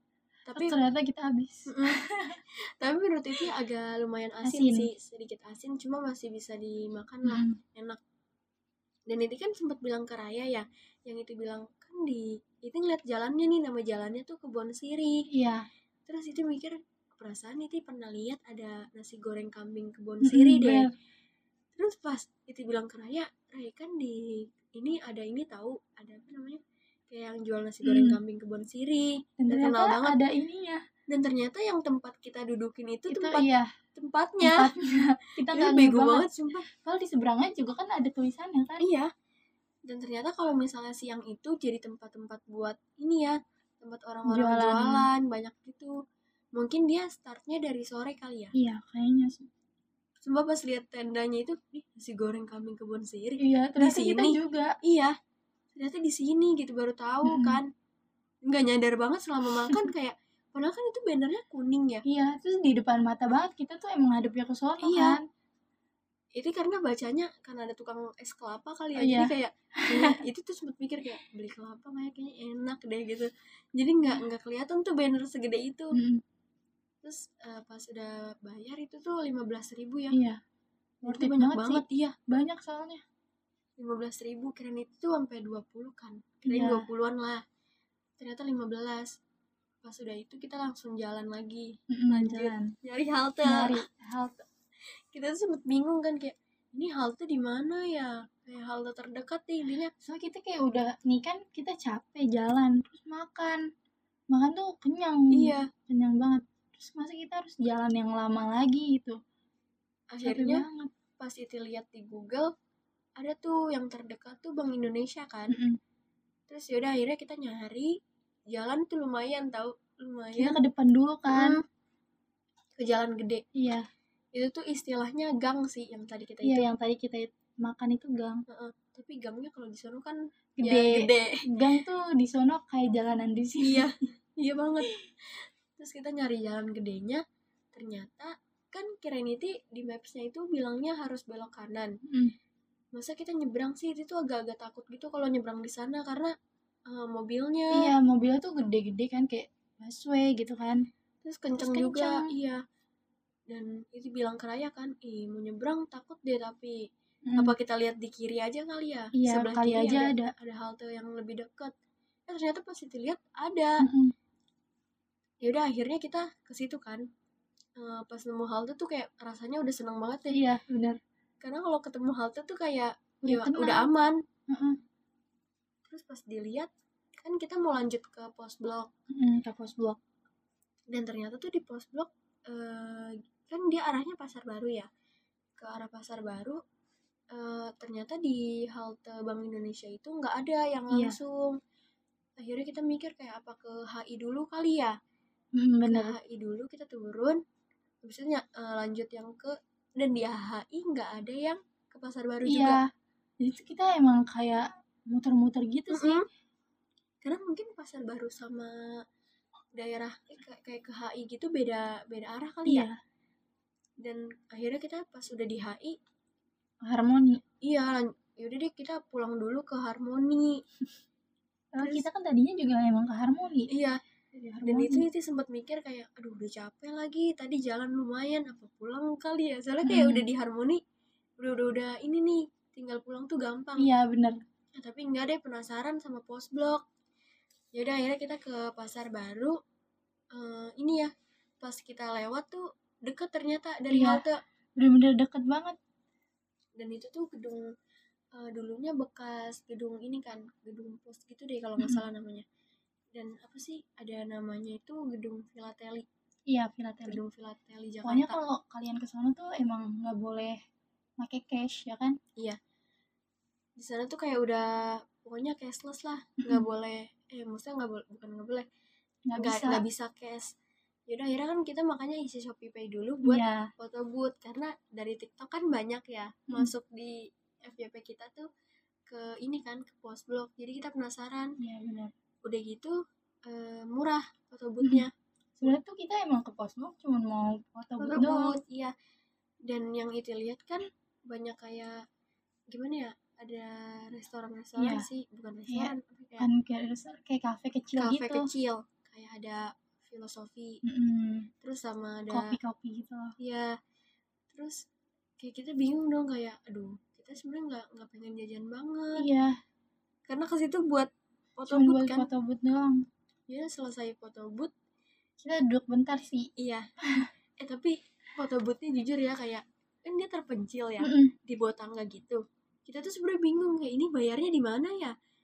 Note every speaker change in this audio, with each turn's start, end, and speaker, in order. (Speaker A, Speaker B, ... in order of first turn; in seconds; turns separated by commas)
Speaker A: 0.5-0.8, Speaker B: 0.5-2.4, Speaker A: 1.7-8.0, Speaker B: 4.4-4.9, Speaker B: 7.2-7.6, Speaker A: 9.1-15.2, Speaker B: 15.3-15.7, Speaker A: 16.1-20.9, Speaker B: 20.2-20.9, Speaker A: 21.8-30.2, Speaker B: 27.8-28.2, Speaker B: 29.4-30.8, Speaker A: 31.1-34.7, Speaker B: 33.1-33.7, Speaker B: 34.4-38.9, Speaker A: 35.5-36.7, Speaker A: 38.8-39.1, Speaker A: 39.9-45.9, Speaker B: 44.3-45.1, Speaker A: 46.6-48.5, Speaker B: 48.5-49.5, Speaker A: 50.2-55.2, Speaker B: 53.4-54.8, Speaker A: 55.8-57.7, Speaker B: 57.2-57.6, Speaker A: 58.5-62.0, Speaker B: 62.0-65.3, Speaker A: 64.8-65.2, Speaker A: 66.4-76.0, Speaker B: 69.0-70.2, Speaker B: 75.9-76.2, Speaker A: 77.0-80.2, Speaker B: 80.1-80.4, Speaker B: 81.0-83.0, Speaker A: 81.1-82.2, Speaker A: 83.8-87.4, Speaker B: 86.5-86.9, Speaker A: 88.2-89.1, Speaker A: 89.8-93.8, Speaker B: 91.9-92.7, Speaker B: 93.5-94.4, Speaker A: 95.1-99.9, Speaker B: 100.0-103.6, Speaker B: 104.3-109.2, Speaker A: 105.3-105.7, Speaker A: 110.1-110.7, Speaker B: 110.2-110.9, Speaker A: 111.2-112.5, Speaker A: 113.2-115.5, Speaker B: 115.5-115.8, Speaker A: 116.5-117.9, Speaker A: 118.5-120.6, Speaker B: 120.3-121.6, Speaker A: 121.3-121.6, Speaker A: 122.8-123.4, Speaker B: 123.5-123.9, Speaker A: 124.3-126.7, Speaker B: 126.4-128.4, Speaker A: 128.5-131.4, Speaker B: 130.6-133.9, Speaker A: 133.6-141.9, Speaker B: 142.1-142.3, Speaker A: 142.9-146.3, Speaker A: 146.9-147.9, Speaker B: 147.7-150.9, Speaker A: 151.2-152.6, Speaker B: 151.6-152.3, Speaker A: 153.5-161.7, Speaker B: 157.3-157.6, Speaker B: 159.1-160.3, Speaker A: 162.3-163.8, Speaker B: 163.8-164.1, Speaker A: 165.4-167.1, Speaker A: 167.8-170.4, Speaker B: 170.3-171.0, Speaker A: 171.4-174.2, Speaker B: 173.2-173.9, Speaker B: 174.5-174.8, Speaker A: 175.9-178.9, Speaker B: 179.1-180.0, Speaker A: 180.9-184.9, Speaker A: 185.6-186.6, Speaker A: 187.3-191.6, Speaker B: 190.9-191.2, Speaker A: 192.4-195.0, Speaker B: 195.6-196.2, Speaker A: 195.8-197.4, Speaker A: 198.0-202.8, Speaker B: 202.5-202.9, Speaker B: 203.4-206.2, Speaker A: 205.9-206.2, Speaker A: 207.2-208.9, Speaker A: 209.8-212.9, Speaker B: 212.7-212.9, Speaker A: 214.0-216.0, Speaker B: 216.9-217.4, Speaker A: 217.6-220.6, Speaker B: 221.7-223.7, Speaker A: 221.8-222.1, Speaker A: 223.7-224.0, Speaker B: 224.3-225.1, Speaker A: 224.6-230.8, Speaker B: 229.8-230.2, Speaker A: 231.4-233.9, Speaker B: 233.8-234.4, Speaker A: 234.8-236.8, Speaker A: 237.7-239.6, Speaker A: 240.3-244.4, Speaker B: 243.9-244.2, Speaker B: 244.8-245.8, Speaker A: 246.8-247.7, Speaker A: 248.3-252.4, Speaker A: 253.1-256.1, Speaker B: 256.5-257.2, Speaker A: 257.1-258.4, Speaker B: 258.0-260.6, Speaker B: 261.2-262.2, Speaker A: 263.8-268.7, Speaker B: 266.4-266.7, Speaker B: 269.3-269.8, Speaker A: 269.4-270.5, Speaker A: 271.1-278.5, Speaker B: 273.2-273.7, Speaker A: 279.1-281.6, Speaker B: 281.6-282.1, Speaker A: 282.4-285.1, Speaker B: 284.8-285.1, Speaker B: 285.6-288.6, Speaker A: 288.0-288.9, Speaker A: 289.7-292.0, Speaker A: 292.7-296.5, Speaker B: 294.8-295.1, Speaker B: 295.7-298.5, Speaker A: 298.0-300.8, Speaker B: 300.8-301.5, Speaker A: 301.6-302.6, Speaker B: 302.3-303.4, Speaker A: 303.4-303.8, Speaker A: 304.5-304.9, Speaker A: 305.4-309.3, Speaker B: 309.1-309.6, Speaker A: 310.3-312.3, Speaker B: 311.7-313.0, Speaker A: 313.5-314.7, Speaker B: 315.4-316.5, Speaker A: 316.6-316.9, Speaker B: 317.0-317.3, Speaker A: 317.6-325.1, Speaker B: 321.0-321.3